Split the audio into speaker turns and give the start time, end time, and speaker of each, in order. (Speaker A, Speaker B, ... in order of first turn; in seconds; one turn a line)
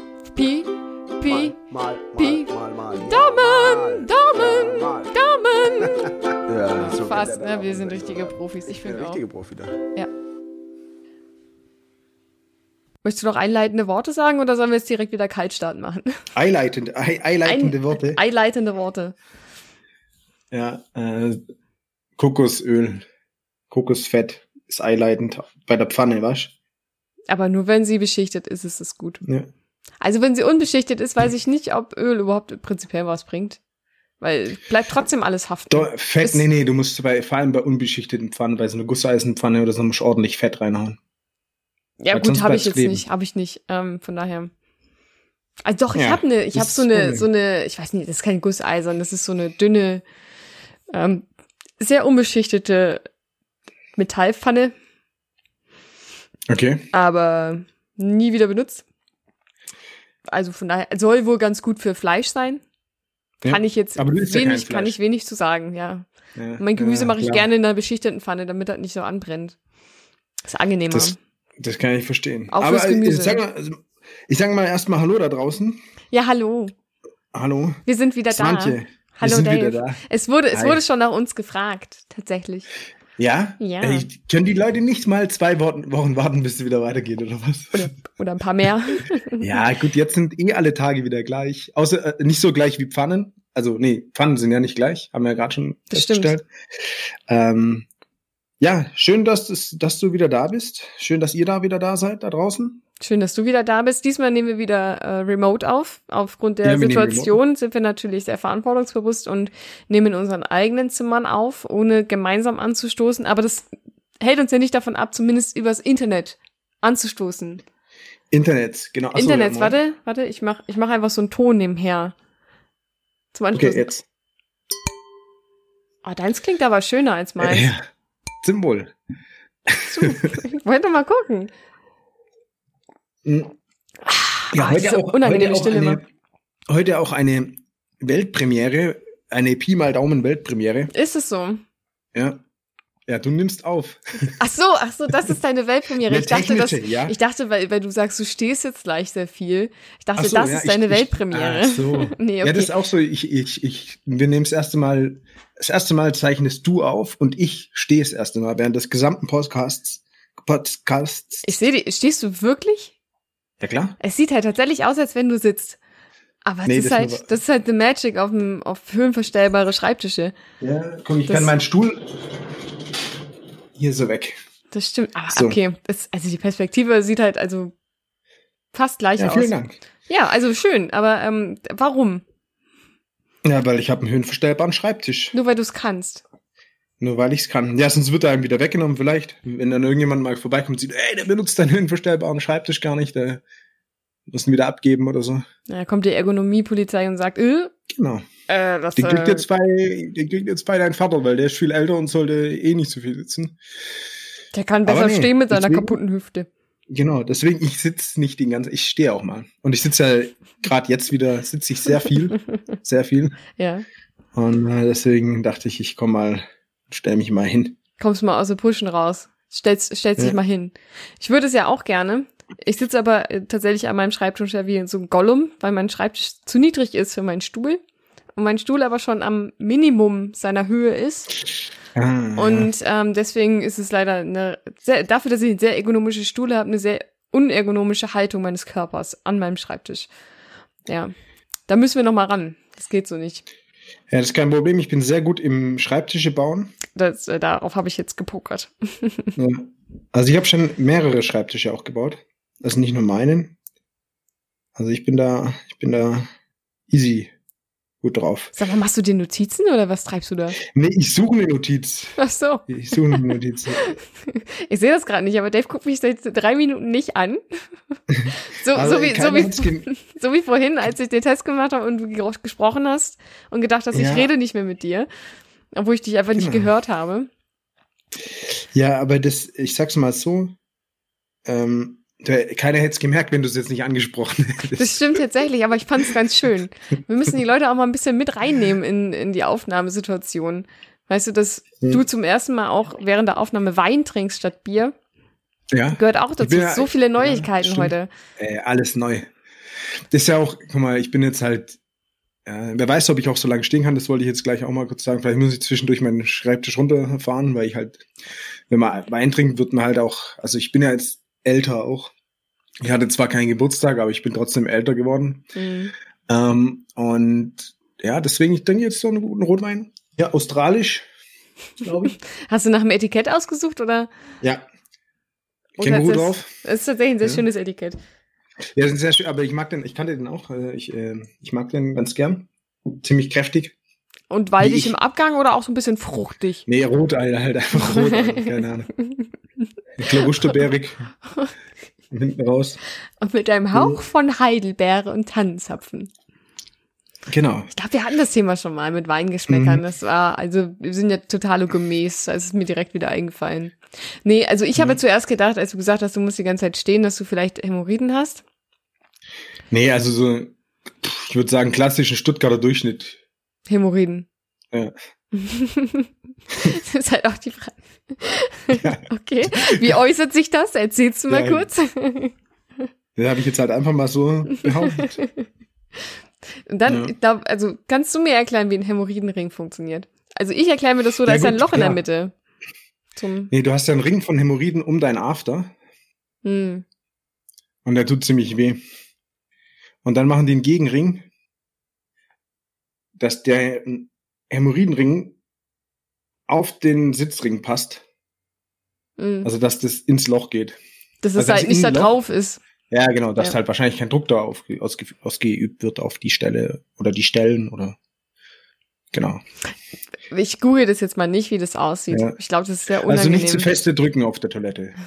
Speaker A: 0.3-1.6
Speaker B: 1.2-5.1
Speaker A: 2.1-2.5
Speaker A: 3.0-6.2
Speaker B: 5.8-9.8
Speaker A: 6.7-9.2
Speaker A: 13.0-16.2
Speaker C: 16.4-18.2
Speaker A: 17.4-19.1
Speaker C: 20.5-21.4
Speaker C: 22.2-23.1
Speaker C: 23.7-26.5
Speaker A: 27.3-29.2
Speaker A: 30.0-33.6
Speaker A: 34.2-36.4
Speaker C: 35.7-41.0
Speaker A: 42.0-44.5
Speaker C: 42.1-43.0
Speaker A: 45.6-50.0
Speaker C: 45.9-47.3
Speaker A: 50.9-51.2
Speaker A: 51.8-53.0
Speaker A: 54.0-54.7
Speaker C: 56.5-56.9
Speaker A: 56.9-58.8
Speaker A: 60.3-62.6
Speaker C: 63.4-65.0
Speaker A: 63.5-66.1
Speaker C: 66.4-67.5
Speaker A: 66.6-69.5
Speaker A: 70.5-71.2
Speaker C: 70.9-75.8
Speaker A: 72.5-73.4
Speaker A: 76.1-76.7
Speaker C: 77.3-80.0
Speaker A: 77.8-82.7
Speaker C: 80.5-80.8
Speaker C: 83.2-87.9
Speaker A: 83.6-84.1
Speaker A: 87.7-89.6
Speaker C: 89.4-97.9
Speaker A: 95.9-96.3
Speaker C: 98.6-102.8
Speaker A: 103.0-113.7
Speaker C: 106.6-107.4
Speaker A: 114.2-117.6
Speaker C: 118.3-119.8
Speaker A: 119.1-122.1
Speaker A: 123.3-123.9
Speaker C: 123.5-124.0
Speaker A: 126.0-127.7
Speaker C: 127.4-127.8
Speaker C: 128.4-128.9
Speaker C: 129.7-130.4
Speaker A: 129.9-131.5
Speaker C: 133.2-133.5
Speaker A: 134.1-136.0
Speaker C: 134.5-136.0
Speaker C: 136.7-140.9
Speaker A: 140.9-141.6
Speaker C: 142.1-142.4
Speaker C: 143.1-144.3
Speaker A: 144.4-152.7
Speaker C: 146.0-147.1
Speaker C: 150.2-161.5
Speaker A: 161.4-162.9
Speaker C: 163.6-164.0
Speaker A: 164.0-165.8
Speaker A: 166.4-170.3
Speaker C: 166.7-167.3
Speaker C: 170.6-172.7
Speaker A: 171.3-171.5
Speaker C: 173.8-174.4
Speaker A: 174.7-177.7
Speaker C: 175.3-175.6
Speaker A: 178.7-179.5
Speaker C: 179.2-179.8
Speaker A: 180.1-182.2
Speaker C: 183.4-185.3
Speaker A: 185.3-186.2
Speaker C: 187.0-193.4
Speaker C: 194.3-195.4
Speaker A: 195.7-197.7
Speaker C: 197.9-198.3
Speaker A: 198.5-199.4
Speaker C: 198.9-203.6
Speaker A: 204.5-206.5
Speaker C: 204.8-206.0
Speaker C: 206.9-213.4
Speaker A: 213.6-213.8
Speaker C: 214.3-217.8
Speaker A: 218.0-227.8
Speaker A: 228.4-231.3
Speaker C: 231.9-232.7
Speaker A: 232.3-240.1
Speaker A: 240.8-241.1
Speaker A: 241.7-243.4
Speaker C: 244.1-246.7
Speaker A: 246.9-249.3
Speaker C: 249.3-253.5
Speaker C: 254.8-256.3
Speaker C: 256.9-257.3
Speaker C: 258.0-258.5
Speaker A: 258.5-260.6
Speaker C: 260.6-262.2
Speaker A: 262.2-267.4
Speaker C: 262.7-263.9
Speaker C: 268.1-269.9
Speaker A: 268.4-275.1
Speaker C: 273.9-274.3
Speaker A: 275.7-277.3
Speaker C: 276.3-276.7
Speaker C: 278.4-280.6
Speaker C: 281.4-285.2
Speaker A: 284.8-294.9
Speaker C: 295.7-299.3
Speaker A: 295.9-298.1
Speaker C: 300.1-301.8
Speaker C: 302.4-308.1
Speaker C: 308.7-312.1
Speaker C: 312.8-315.4
Speaker A: 315.5-315.9
Speaker C: 316.3-321.1
Speaker C: 321.8-322.1
Speaker A: 322.0-324.1
Speaker C: 325.8-326.5
Speaker A: 325.8-328.0
Speaker C: 328.6-333.7
Speaker A: 334.3-336.6
Speaker C: 334.6-334.9
Speaker C: 336.7-338.9
Speaker A: 337.8-338.4
Speaker C: 340.0-341.1
Speaker C: 342.1-342.8
Speaker A: 343.2-346.1
Speaker C: 347.3-347.7
Speaker A: 347.7-358.4
Speaker C: 349.5-349.8
Speaker C: 359.7-363.2
Speaker A: 363.7-364.2
Speaker A: 365.3-366.1
Speaker A: 366.6-372.3
Speaker C: 368.8-369.9
Speaker C: 371.3-371.7
Speaker C: 373.1-375.2
Speaker A: 374.8-375.4
Speaker A: 376.7-382.3
Speaker C: 376.9-377.1
Speaker C: 381.2-382.0
Speaker A: 383.1-383.5
Speaker C: 383.5-385.7
Speaker A: 386.4-386.8
Speaker C: 387.8-388.8
Speaker C: 390.0-391.3
Speaker C: 393.2-395.4
Speaker C: 396.5-398.0
Speaker A: 399.2-399.5
Speaker C: 399.4-400.8
Speaker A: 401.2-402.6
Speaker C: 401.4-402.1
Speaker C: 402.9-407.9
Speaker C: 409.1-409.4
Speaker A: 410.3-413.7
Speaker C: 413.0-414.9